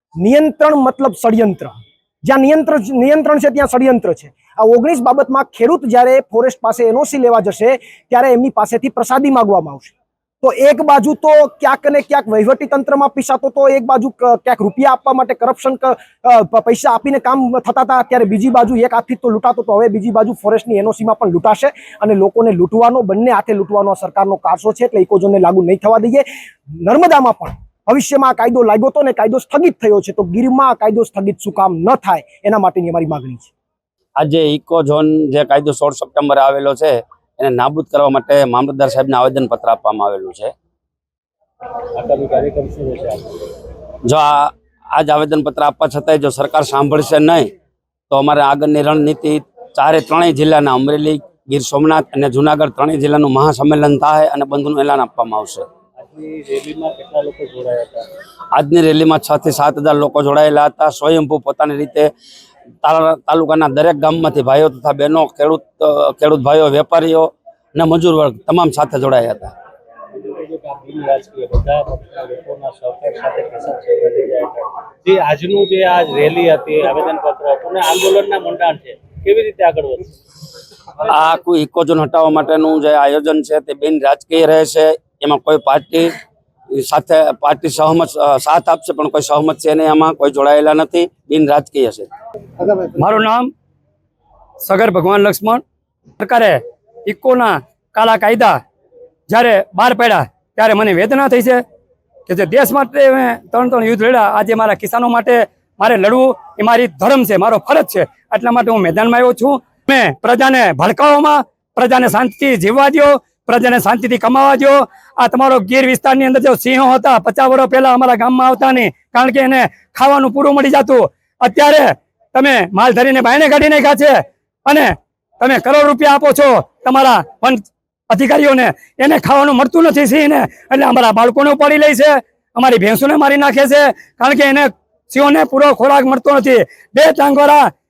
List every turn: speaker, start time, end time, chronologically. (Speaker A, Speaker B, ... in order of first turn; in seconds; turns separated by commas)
Speaker A: 0.2-26.2, Speaker A: 26.8-33.5, Speaker B: 34.2-40.5, Speaker C: 41.9-43.3, Speaker B: 44.0-47.5, Speaker B: 48.1-55.6, Speaker C: 56.0-58.1, Speaker B: 58.5-62.1, Speaker B: 62.8-69.5, Speaker C: 70.1-80.1, Speaker B: 81.1-86.2, Speaker B: 86.8-92.1, Speaker D: 92.8-93.5, Speaker D: 94.6-95.6, Speaker D: 96.2-98.6, Speaker D: 99.3-101.6, Speaker D: 102.3-137.7